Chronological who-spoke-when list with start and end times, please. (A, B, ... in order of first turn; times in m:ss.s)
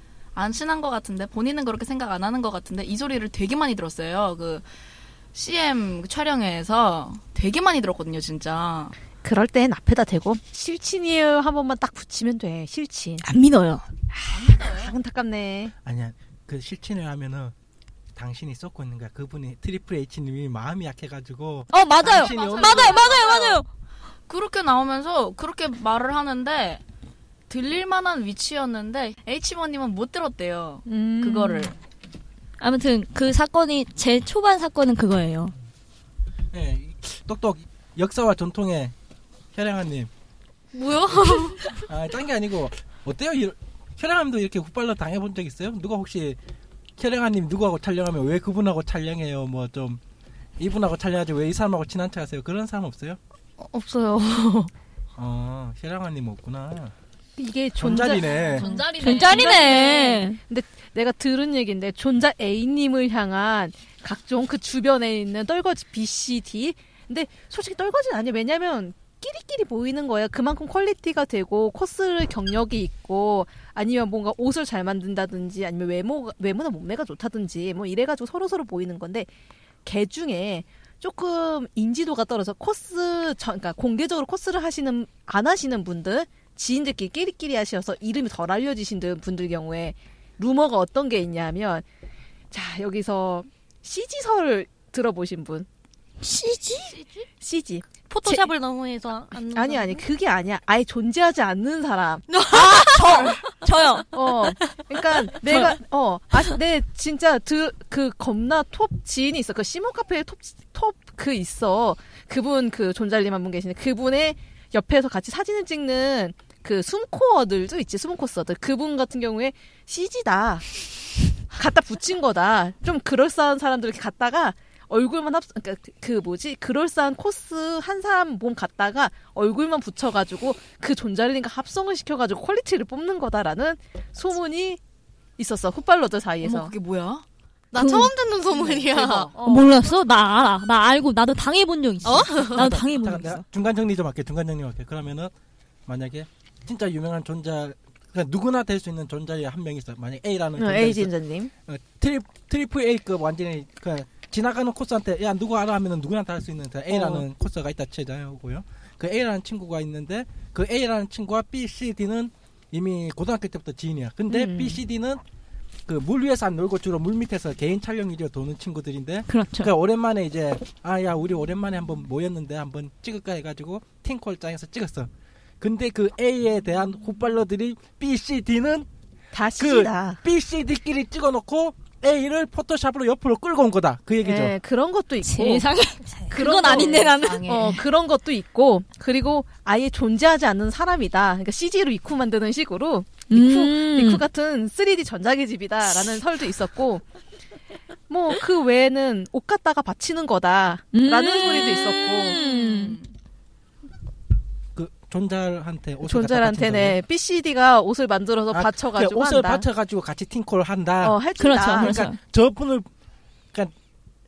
0:00.4-0:04.7 A
0:05.3-0:08.9 A
0:09.2-0:13.3 B
0:13.2-0:13.9 C
0:14.1-0:15.7 B
0:14.3-0:15.0 A
0:15.8-0:17.5 D
0:18.2-0:23.1 D
0:21.7-0:23.7 C
0:22.0-0:23.6 A
0:24.3-0:26.8 A
0:27.5-0:31.8 A
0:30.9-0:31.7 B
0:32.6-0:35.5 C
0:36.5-0:38.9 D
0:39.6-0:40.1 D
0:40.7-0:41.7 E
0:41.8-0:46.4 D
0:47.0-0:50.0 D
0:50.6-0:53.2 D
0:53.6-0:54.7 E
0:55.2-0:56.9 D
0:57.4-1:19.3 B
0:57.8-0:58.7 D
0:58.0-1:00.2 A
0:59.0-1:00.4 C
1:19.8-1:31.8 B
1:32.5-1:35.7 B
1:36.2-1:37.0 C
1:37.0-1:37.2 A
1:37.4-1:38.5 B
1:38.1-1:40.0 E
1:39.4-1:42.3 B
1:42.3-1:43.3 E
1:42.5-1:44.1 C
1:44.1-2:00.7 B
1:45.4-1:45.8 C
2:01.5-2:14.8 B
2:15.4-2:16.7 B
2:16.4-2:17.2 A
2:17.7-2:19.3 E
2:17.8-2:18.1 C
2:18.5-2:19.3 A
2:19.1-2:19.9 B
2:19.4-2:23.4 C
2:22.0-2:22.7 E
2:22.6-2:25.3 D
2:25.9-2:31.1 D
2:30.6-2:31.5 B
2:31.7-2:45.2 D
2:36.9-2:37.2 B
2:44.3-2:44.8 B
2:45.9-2:55.1 D
2:49.3-2:49.7 C
2:55.6-2:58.9 D
2:59.3-3:00.2 B
2:59.6-3:04.5 D
3:04.2-3:05.7 B
3:05.2-3:07.8 C
3:06.3-3:17.0 B
3:06.6-3:07.8 A
3:13.3-3:14.2 C
3:18.1-3:22.4 B
3:20.9-3:23.0 C
3:22.2-3:23.1 A
3:24.8-3:27.0 D
3:26.1-3:29.7 B
3:28.5-3:32.9 D
3:31.0-3:32.0 B
3:31.4-3:32.2 C